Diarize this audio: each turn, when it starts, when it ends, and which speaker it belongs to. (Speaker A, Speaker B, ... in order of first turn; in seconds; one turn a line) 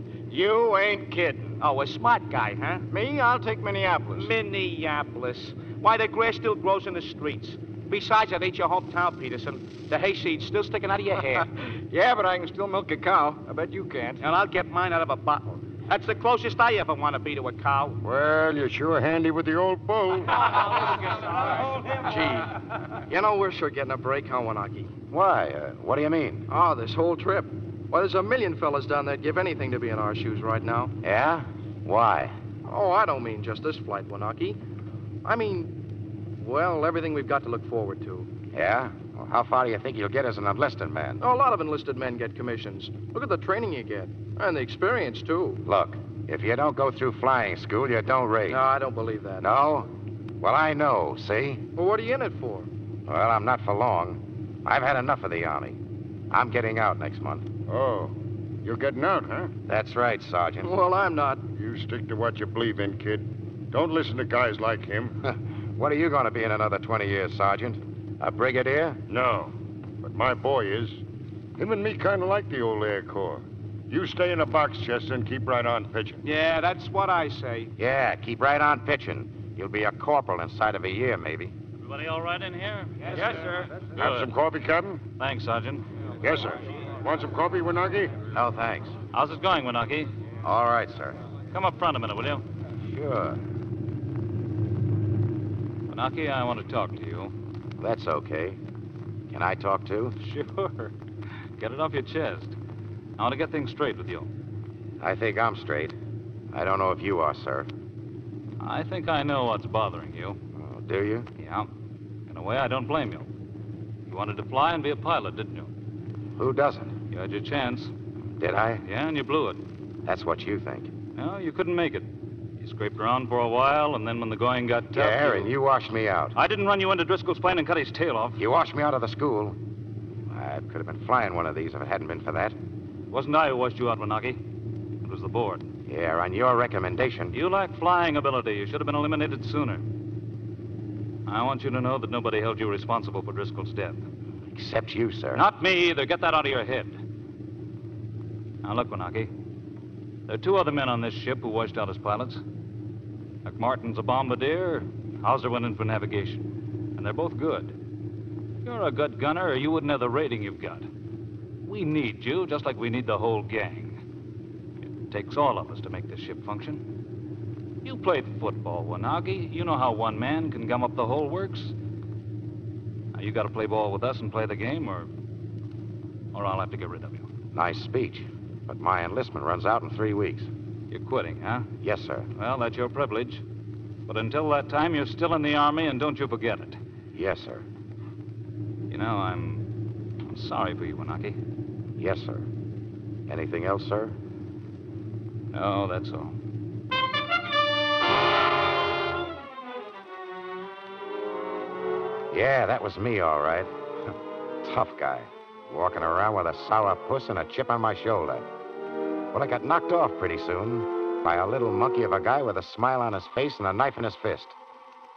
Speaker A: 0.3-1.5
Speaker B: 1.6-2.8
Speaker A: 2.9-4.3
Speaker B: 4.1-11.5
Speaker A: 11.9-14.2
Speaker B: 14.2-18.0
Speaker C: 18.0-20.4
Speaker D: 21.9-22.5
Speaker D: 23.1-24.9
Speaker E: 25.1-26.5
Speaker D: 26.5-30.9
Speaker E: 31.0-32.3
Speaker D: 32.6-34.6
Speaker D: 35.2-35.7
Speaker D: 36.4-38.3
Speaker E: 38.5-41.2
Speaker D: 41.2-45.6
Speaker E: 45.6-48.6
Speaker D: 48.5-49.5
Speaker E: 49.4-51.6
Speaker D: 51.8-52.7
Speaker E: 53.0-55.8
Speaker E: 56.3-57.5
Speaker C: 57.7-59.5
Speaker E: 59.7-60.7
Speaker D: 60.6-61.4
Speaker C: 61.5-65.1
Speaker E: 65.2-69.0
Speaker C: 69.1-71.0
Speaker C: 71.6-76.2
Speaker B: 76.2-77.7
Speaker E: 77.8-81.5
Speaker F: 81.8-84.3
Speaker B: 83.0-83.7
Speaker C: 84.0-85.0
Speaker F: 85.2-85.8
Speaker C: 86.2-88.1
Speaker E: 88.3-88.9
Speaker F: 89.1-90.1
Speaker E: 90.4-91.2
Speaker F: 91.5-92.4
Speaker E: 92.8-93.4
Speaker F: 95.9-97.3
Speaker E: 97.8-98.6
Speaker E: 99.3-100.2
Speaker F: 100.2-100.9
Speaker F: 101.6-102.5
Speaker F: 103.2-104.3
Speaker E: 105.0-106.0
Speaker E: 106.5-107.7
Speaker F: 108.6-110.4
Speaker E: 110.5-111.3
Speaker F: 111.4-111.7
Speaker F: 112.3-113.3
Speaker F: 114.1-115.7
Speaker E: 116.4-116.9
Speaker F: 117.1-117.9
Speaker E: 118.4-118.8
Speaker F: 118.8-119.6
Speaker E: 120.0-120.9
Speaker F: 121.2-122.1
Speaker F: 122.6-125.5
Speaker E: 124.9-126.3
Speaker F: 126.3-128.4
Speaker E: 128.4-129.6
Speaker E: 130.3-132.6
Speaker F: 133.1-134.4
Speaker F: 135.0-135.7
Speaker E: 135.9-137.3
Speaker F: 137.3-139.8
Speaker F: 141.3-144.0
Speaker E: 144.5-145.4
Speaker F: 145.3-147.0
Speaker F: 148.6-149.3
Speaker F: 150.3-152.4
Speaker F: 153.4-157.7
Speaker F: 158.6-160.9
Speaker F: 161.7-164.0
Speaker F: 165.0-166.8
Speaker F: 167.8-171.7
Speaker F: 173.1-175.1
Speaker F: 176.3-177.2
Speaker E: 177.5-180.5
Speaker F: 180.9-181.7
Speaker E: 181.8-182.3
Speaker F: 182.3-183.4
Speaker F: 184.1-186.8
Speaker E: 187.1-187.6
Speaker F: 188.9-189.6
Speaker F: 190.2-191.4
Speaker E: 192.0-192.5
Speaker E: 193.3-194.1
Speaker F: 195.5-196.3
Speaker E: 202.3-204.1
Speaker E: 204.6-208.5
Speaker E: 209.3-214.6